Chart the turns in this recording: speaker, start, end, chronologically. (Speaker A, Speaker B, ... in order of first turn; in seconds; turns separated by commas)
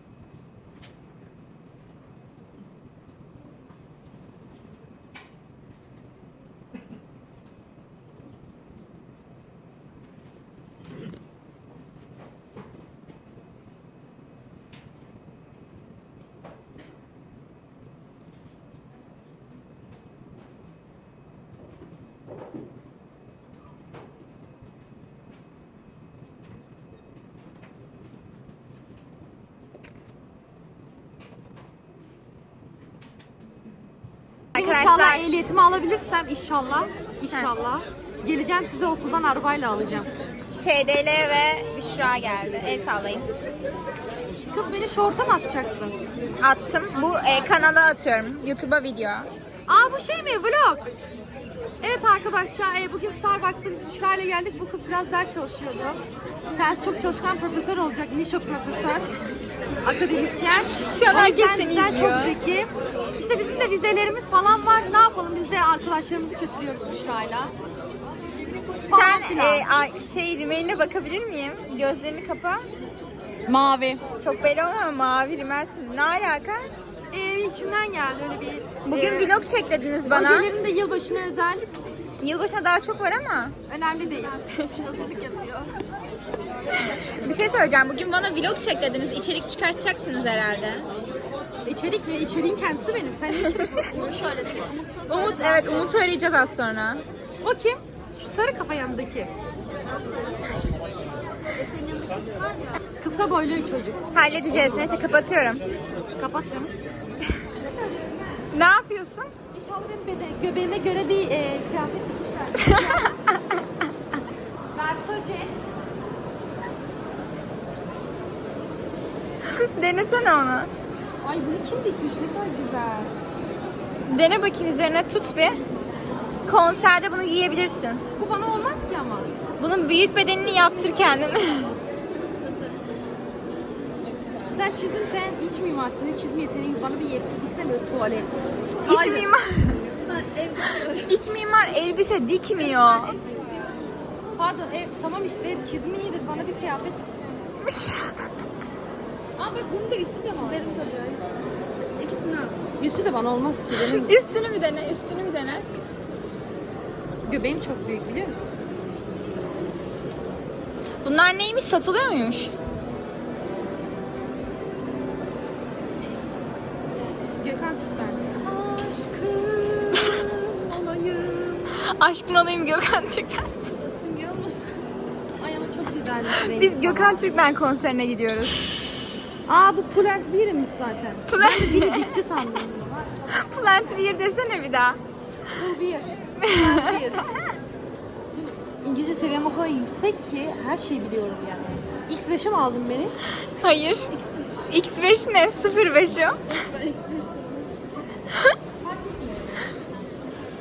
Speaker A: 34.5-35.3, Speaker B: 34.5-40.1, Speaker A: 40.6-43.2, Speaker B: 44.4-46.0, Speaker A: 46.4-49.3, Speaker B: 49.7-50.9, Speaker B: 51.8-56.0, Speaker B: 56.5-59.0, Speaker B: 59.8-67.5, Speaker A: 60.8-62.3, Speaker B: 68.5-69.7, Speaker A: 68.9-72.7, Speaker B: 73.5-74.0, Speaker A: 74.2-76.7, Speaker B: 77.1-79.3, Speaker A: 78.8-80.5, Speaker B: 80.0-81.7, Speaker A: 82.2-83.5, Speaker B: 83.7-85.8, Speaker A: 87.1-90.9, Speaker B: 91.6-95.9, Speaker A: 95.1-97.0, Speaker B: 97.4-99.3, Speaker B: 101.6-102.5, Speaker B: 103.0-104.0, Speaker A: 104.1-105.6, Speaker B: 106.2-106.7, Speaker B: 107.6-108.2, Speaker A: 108.5-109.3, Speaker B: 109.5-113.1, Speaker A: 112.7-113.4, Speaker B: 114.7-115.5, Speaker A: 119.5-120.7, Speaker B: 121.2-123.1, Speaker A: 124.1-125.6, Speaker A: 126.5-128.0, Speaker B: 128.2-129.3, Speaker A: 129.6-131.7, Speaker B: 134.5-139.3, Speaker A: 138.8-139.8, Speaker B: 140.0-141.0, Speaker A: 140.9-143.1, Speaker B: 142.6-143.7, Speaker B: 144.4-147.1, Speaker A: 147.6-148.1, Speaker B: 149.4-151.3, Speaker B: 152.0-154.2, Speaker A: 153.7-155.6, Speaker B: 157.2-158.5, Speaker A: 161.0-162.5, Speaker B: 167.4-171.7, Speaker A: 171.8-173.7, Speaker B: 173.8-174.7, Speaker B: 175.4-177.3, Speaker A: 176.5-178.6, Speaker B: 179.5-183.2, Speaker A: 181.3-182.2, Speaker A: 183.3-185.0, Speaker B: 185.5-187.2, Speaker A: 186.4-187.0, Speaker B: 188.8-193.1, Speaker A: 193.6-194.1, Speaker A: 194.7-196.4, Speaker B: 196.7-197.6, Speaker B: 198.8-199.7